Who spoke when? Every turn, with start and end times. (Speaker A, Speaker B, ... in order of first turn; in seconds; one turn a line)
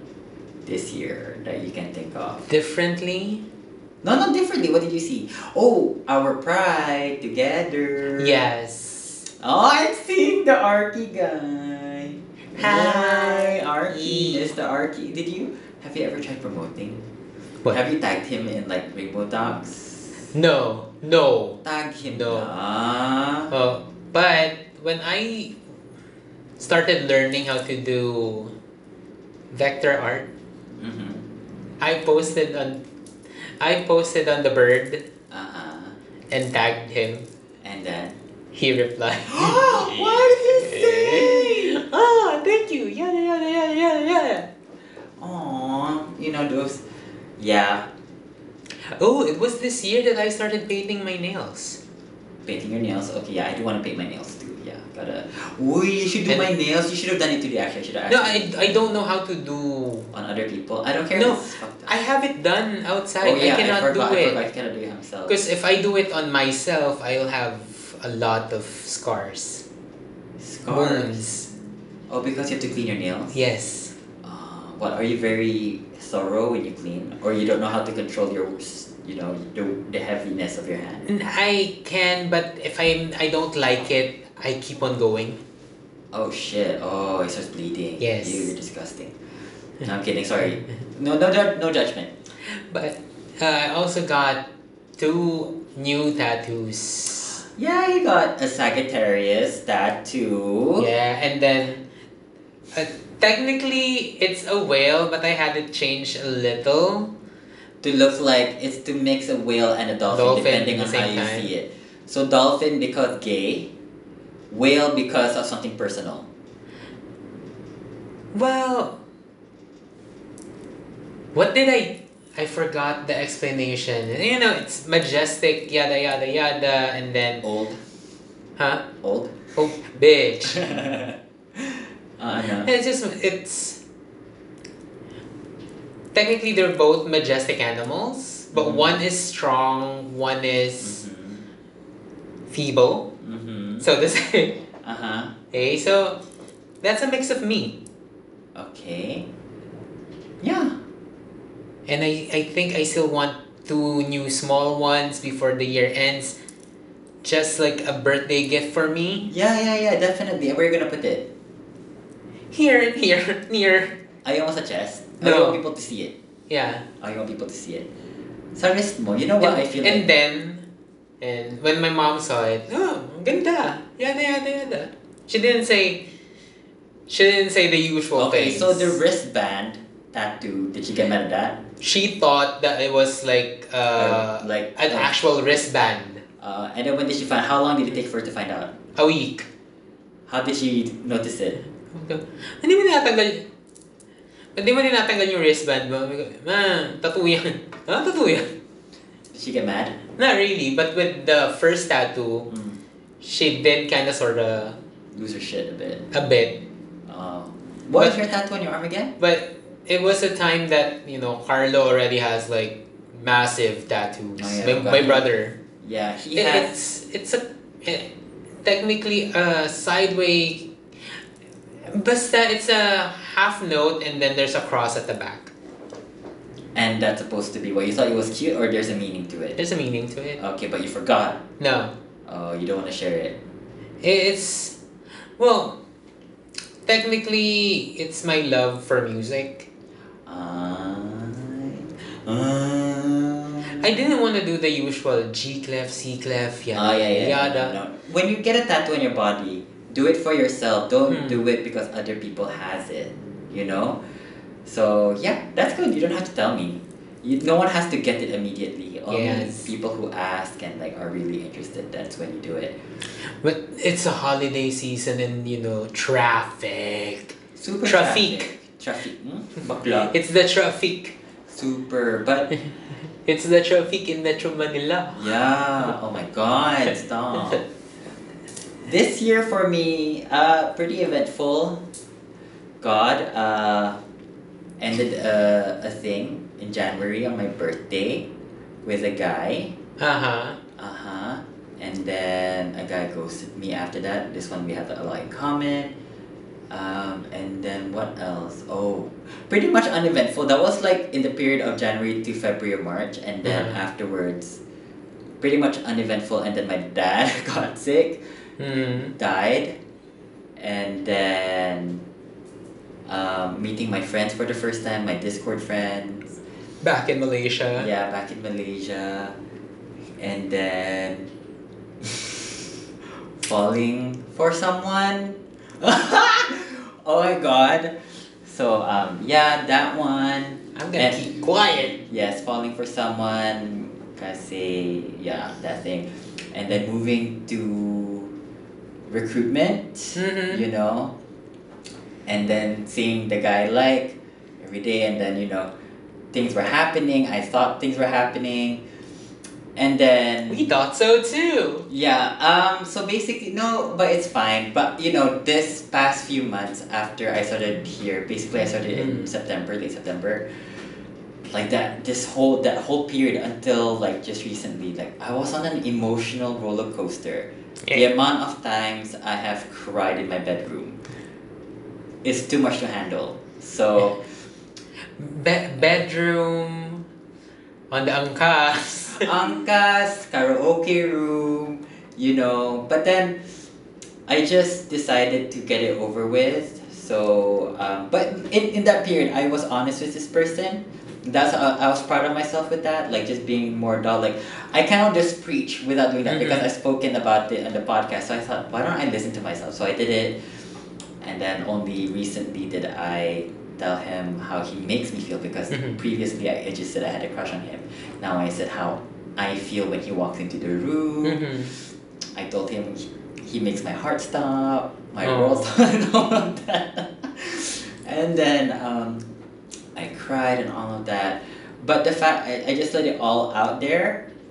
Speaker A: 0.7-2.5
Speaker B: 2.5-3.5
Speaker A: 4.0-8.4
Speaker B: 8.2-9.3
Speaker A: 9.4-17.0
Speaker B: 12.6-14.5
Speaker A: 17.7-20.1
Speaker B: 20.3-22.5
Speaker A: 21.6-23.5
Speaker B: 23.5-25.6
Speaker B: 26.6-28.5
Speaker B: 29.5-30.3
Speaker A: 30.8-31.3
Speaker B: 31.8-32.8
Speaker B: 33.6-35.1
Speaker A: 35.3-36.0
Speaker B: 36.3-37.3
Speaker A: 37.6-38.2
Speaker B: 38.5-44.5
Speaker A: 39.3-41.8
Speaker A: 45.2-46.8
Speaker A: 47.4-47.9
Speaker B: 49.0-51.8
Speaker A: 52.5-58.8
Speaker B: 58.1-60.1
Speaker A: 60.1-62.0
Speaker B: 61.1-64.4
Speaker A: 63.2-65.4
Speaker B: 65.3-69.6
Speaker A: 70.4-71.2
Speaker B: 70.7-71.5
Speaker A: 72.1-73.4
Speaker B: 73.3-73.9
Speaker A: 74.2-81.1
Speaker B: 81.1-85.4
Speaker A: 86.1-89.1
Speaker B: 88.0-88.5
Speaker A: 89.8-92.1
Speaker B: 92.7-94.4
Speaker B: 95.0-97.4
Speaker A: 97.4-100.9
Speaker B: 100.8-101.8
Speaker B: 102.7-107.1
Speaker A: 107.8-113.7
Speaker B: 110.1-111.5
Speaker A: 114.5-116.3
Speaker B: 118.3-119.0
Speaker B: 121.3-127.5
Speaker A: 127.4-127.8
Speaker B: 128.6-128.8
Speaker A: 129.0-129.4
Speaker B: 129.6-130.8
Speaker A: 130.5-132.7
Speaker B: 132.6-133.8
Speaker B: 136.1-141.0
Speaker A: 138.5-139.0
Speaker A: 140.8-141.4
Speaker B: 142.5-143.1
Speaker A: 143.2-143.9
Speaker B: 143.8-144.6
Speaker A: 144.8-145.3
Speaker B: 145.5-146.2
Speaker B: 146.8-147.8
Speaker A: 148.6-149.3
Speaker A: 150.4-150.8
Speaker B: 151.9-156.4
Speaker B: 157.2-159.3
Speaker A: 159.3-161.3
Speaker B: 162.5-164.0
Speaker A: 164.2-166.2
Speaker B: 165.2-165.6
Speaker B: 166.5-166.9
Speaker A: 167.0-167.9
Speaker A: 168.6-170.1
Speaker B: 169.4-170.7
Speaker B: 171.2-176.1
Speaker B: 177.1-179.0
Speaker A: 178.2-181.6
Speaker B: 181.8-186.2
Speaker A: 183.9-185.2
Speaker A: 186.4-188.7
Speaker B: 189.0-189.5
Speaker A: 190.3-191.6
Speaker B: 191.9-193.5
Speaker B: 194.6-198.5
Speaker A: 199.3-200.0
Speaker B: 200.2-202.5
Speaker A: 202.5-202.8
Speaker B: 203.2-204.8
Speaker A: 205.1-206.1
Speaker B: 206.1-206.6
Speaker A: 207.1-209.1
Speaker B: 209.2-215.6
Speaker A: 214.4-215.3
Speaker A: 215.8-216.7
Speaker B: 216.3-218.1
Speaker B: 218.6-220.7
Speaker B: 221.8-225.5
Speaker A: 226.8-229.6
Speaker B: 229.6-230.4
Speaker A: 230.4-231.4
Speaker B: 231.6-231.9
Speaker A: 232.3-233.4
Speaker B: 234.0-234.8
Speaker B: 235.4-235.8
Speaker B: 236.9-239.7
Speaker A: 240.3-243.9
Speaker B: 243.7-247.8
Speaker A: 246.7-254.0
Speaker B: 251.1-251.4
Speaker A: 254.7-262.8
Speaker B: 259.1-259.7
Speaker B: 263.4-268.5
Speaker A: 267.6-270.1
Speaker B: 270.1-271.2
Speaker A: 271.5-272.6
Speaker B: 273.2-275.3
Speaker A: 275.2-277.7
Speaker A: 278.8-281.8
Speaker A: 282.8-284.0
Speaker A: 284.8-288.3
Speaker A: 288.8-289.7
Speaker B: 290.0-290.6
Speaker A: 290.8-295.9
Speaker A: 296.7-304.6
Speaker B: 303.4-303.8
Speaker A: 305.4-308.2
Speaker B: 308.6-309.1
Speaker A: 309.2-309.8
Speaker A: 310.6-312.0
Speaker A: 313.1-316.4
Speaker B: 316.8-317.9
Speaker A: 317.8-319.3
Speaker A: 320.2-321.3
Speaker A: 322.0-322.5
Speaker A: 323.4-331.3
Speaker B: 330.8-332.0
Speaker A: 332.0-338.4
Speaker A: 339.1-341.1
Speaker B: 340.2-340.6
Speaker A: 342.3-345.7
Speaker A: 346.3-348.8
Speaker A: 349.8-350.7
Speaker B: 350.5-351.9
Speaker A: 351.9-360.5
Speaker B: 359.0-359.2
Speaker A: 361.4-371.0
Speaker A: 372.2-374.2
Speaker B: 375.2-377.1
Speaker B: 377.9-379.3
Speaker A: 379.1-383.4
Speaker A: 384.3-400.4
Speaker B: 396.3-396.7
Speaker A: 401.2-411.6
Speaker B: 405.7-406.0
Speaker B: 411.2-411.7
Speaker A: 412.4-419.2
Speaker B: 415.2-415.7
Speaker A: 419.9-424.3